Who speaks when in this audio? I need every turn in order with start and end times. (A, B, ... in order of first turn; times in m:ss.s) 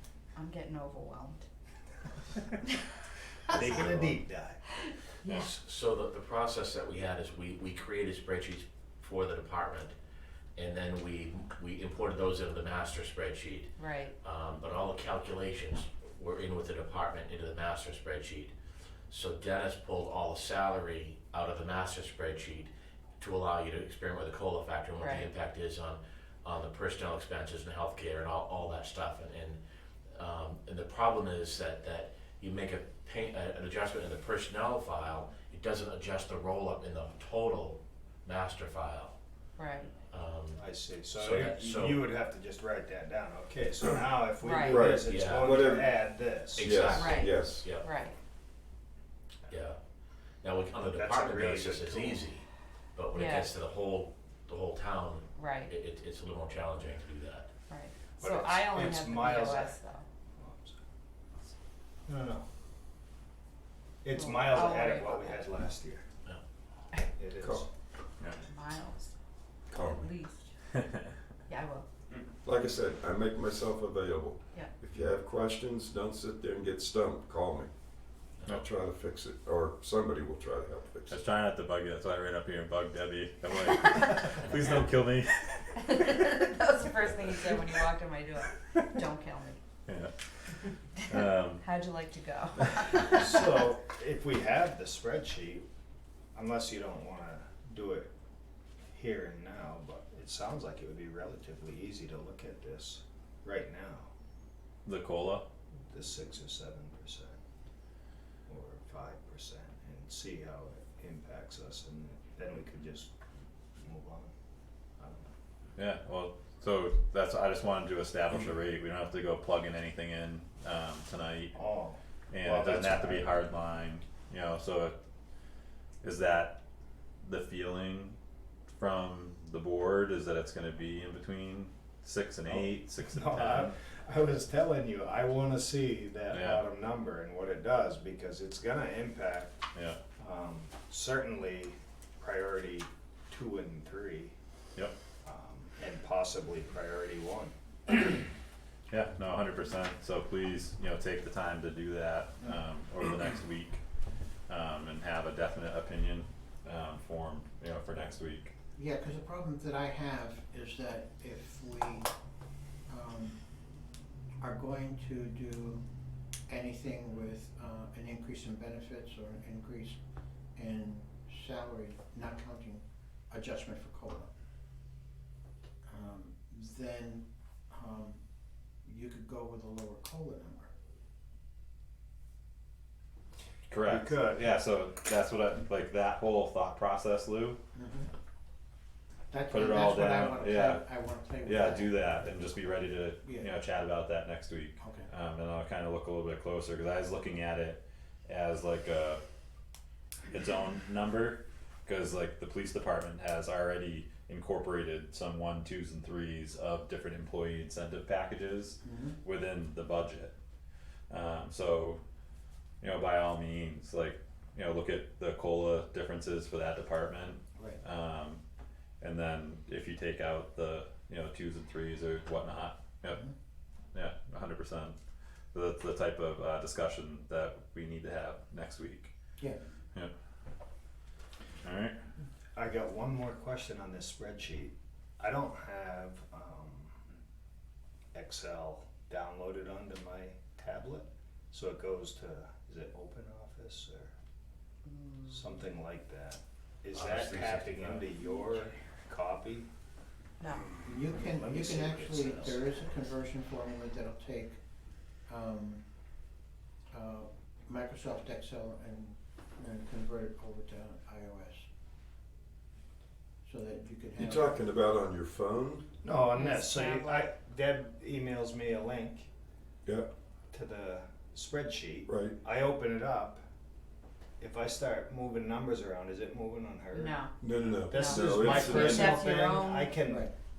0:00.3-0:01.4 A
0:03.5-0:04.6 B
0:03.6-0:04.1 C
0:04.8-0:05.4 A
0:05.3-0:09.9 C
0:10.6-0:18.5 C
0:13.8-0:14.1 A
0:19.1-0:29.6 C
0:25.0-0:25.3 A
0:30.1-0:39.2 C
0:39.6-0:39.9 A
0:40.0-0:42.0 C
0:40.6-0:47.1 B
0:44.4-0:44.9 A
0:44.6-0:47.8 D
0:45.0-0:45.6 C
0:46.5-0:47.9 C
0:47.0-0:48.2 A
0:49.5-0:49.8 C
0:50.4-0:57.5 C
0:50.7-0:52.2 B
0:53.1-0:53.5 A
0:55.4-0:55.7 A
0:57.7-1:00.0 A
0:58.2-0:59.8 B
1:00.4-1:00.8 B
1:02.1-1:02.4 B
1:04.0-1:06.0 B
1:04.1-1:05.4 A
1:07.1-1:07.7 B
1:08.3-1:09.1 A
1:09.7-1:10.0 D
1:09.8-1:10.5 A
1:10.7-1:11.0 E
1:11.5-1:11.8 A
1:12.4-1:17.7 D
1:18.4-1:21.2 D
1:21.1-1:26.0 E
1:25.7-1:29.6 A
1:29.9-1:30.1 E
1:31.0-1:31.6 E
1:31.6-1:33.4 A
1:33.1-1:35.6 B
1:36.3-1:38.1 B
1:38.9-1:44.1 B
1:44.8-1:45.4 E
1:45.9-1:47.4 B
1:48.5-1:53.1 B
1:53.8-1:54.3 B
1:55.0-1:55.3 B
1:55.8-2:01.6 E
2:01.5-2:03.4 B
2:02.3-2:04.9 E
2:06.0-2:06.6 E
2:07.2-2:08.2 E
2:08.7-2:13.7 E
2:12.4-2:19.6 B
2:16.3-2:16.7 E
2:19.7-2:20.0 E
2:20.2-2:24.3 B
2:25.2-2:28.2 B
2:28.9-2:33.8 E
2:34.5-2:38.5 E
2:38.8-2:42.1 F
2:42.9-2:43.4 F
2:44.4-2:45.8 F
2:46.5-2:50.0 F
2:50.6-2:54.3 F
2:55.8-2:58.2 F
2:58.8-3:00.7 F
3:03.7-3:07.6 E
3:03.8-3:04.5 B
3:07.7-3:08.1 F
3:09.3-3:12.5 F
3:09.5-3:10.9 E
3:11.4-3:19.2 E
3:13.2-3:13.6 F
3:14.8-3:15.1 F
3:20.3-3:30.3 E
3:28.8-3:29.2 F
3:31.1-3:32.0 E
3:32.8-3:38.4 E
3:37.6-3:37.8 F
3:39.0-3:43.2 E
3:43.1-3:43.3 F
3:43.9-3:45.0 E
3:45.5-3:49.1 E
3:51.6-3:52.0 E
3:52.5-3:56.9 B
3:58.1-4:04.1 B
4:04.9-4:05.4 A
4:05.2-4:09.7 B
4:06.9-4:08.2 C
4:10.4-4:10.6 A
4:10.8-4:14.6 F
4:10.9-4:13.0 B
4:15.3-4:15.8 F
4:16.9-4:21.7 F
4:23.4-4:24.6 F
4:24.2-4:25.8 D
4:26.0-4:29.3 B
4:26.3-4:27.3 A
4:29.8-4:30.1 D
4:30.5-4:33.4 B
4:32.1-4:32.4 D
4:34.4-4:37.3 B
4:36.9-4:40.0 A
4:37.4-4:39.3 D
4:37.9-4:40.3 B
4:40.0-4:40.3 F